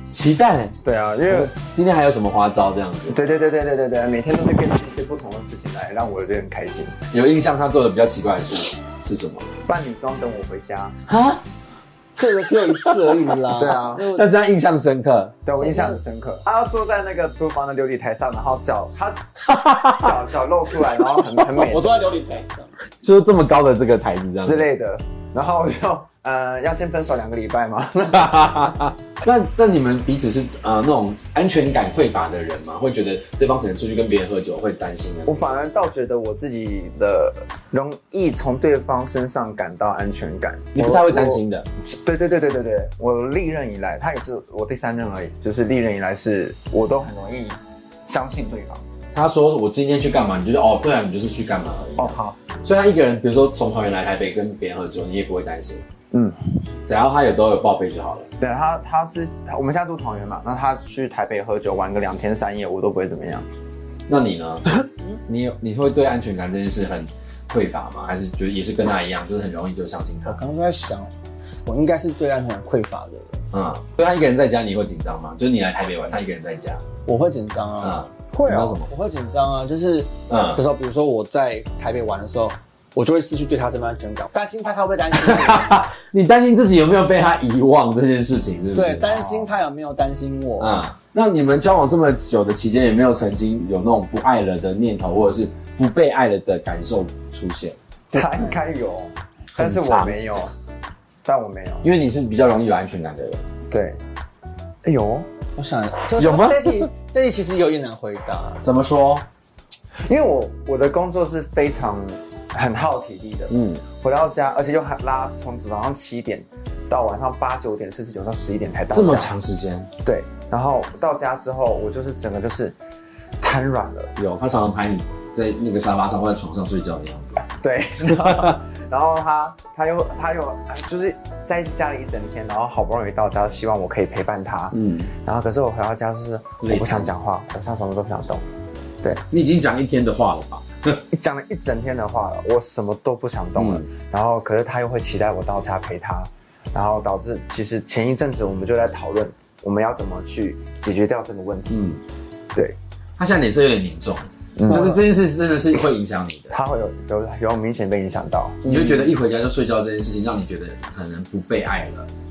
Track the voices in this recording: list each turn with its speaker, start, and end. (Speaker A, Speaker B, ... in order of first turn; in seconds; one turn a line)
Speaker A: 0.1-3.2
Speaker B: 0.8-1.5
Speaker B: 3.1-7.0
Speaker A: 7.1-9.5
Speaker B: 9.7-10.9
Speaker A: 11.1-11.4
Speaker C: 12.2-14.3
Speaker B: 13.5-14.0
Speaker A: 14.0-15.3
Speaker B: 15.4-22.1
Speaker C: 15.6-16.0
Speaker A: 19.5-20.1
Speaker C: 21.5-22.7
Speaker A: 23.0-24.7
Speaker B: 24.4-28.8
Speaker A: 28.1-35.5
Speaker B: 35.2-48.8
Speaker A: 40.7-41.7
Speaker A: 49.1-55.8
Speaker B: 52.0-52.4
Speaker B: 56.1-56.4
Speaker A: 56.8-58.3
Speaker B: 58.4-63.5
Speaker A: 64.1-64.7
Speaker A: 65.3-70.4
Speaker C: 70.2-71.1
Speaker C: 71.6-73.4
Speaker A: 73.5-76.8
Speaker C: 77.0-78.0
Speaker A: 77.8-78.9
Speaker B: 78.3-78.8
Speaker C: 78.9-85.9
Speaker A: 80.3-80.6
Speaker A: 85.1-89.3
Speaker C: 88.7-90.8
Speaker A: 90.6-97.8
Speaker C: 98.1-98.6
Speaker B: 98.1-100.5
Speaker A: 99.5-100.2
Speaker B: 101.2-101.8
Speaker A: 101.8-103.4
Speaker B: 103.7-104.0
Speaker B: 104.8-105.3
Speaker C: 105.5-108.6
Speaker A: 106.2-106.9
Speaker A: 108.6-109.2
Speaker B: 110.0-119.3
Speaker A: 113.5-113.8
Speaker A: 118.9-119.9
Speaker B: 120.0-122.7
Speaker B: 123.4-124.1
Speaker A: 124.2-127.4
Speaker B: 127.5-138.4
Speaker A: 128.0-128.6
Speaker A: 134.7-135.1
Speaker A: 136.6-137.1
Speaker A: 139.3-141.0
Speaker B: 141.1-151.8
Speaker A: 143.6-143.8
Speaker A: 151.7-152.0
Speaker A: 153.2-156.5
Speaker B: 154.6-155.0
Speaker B: 156.5-158.8
Speaker A: 158.6-162.1
Speaker C: 158.7-158.9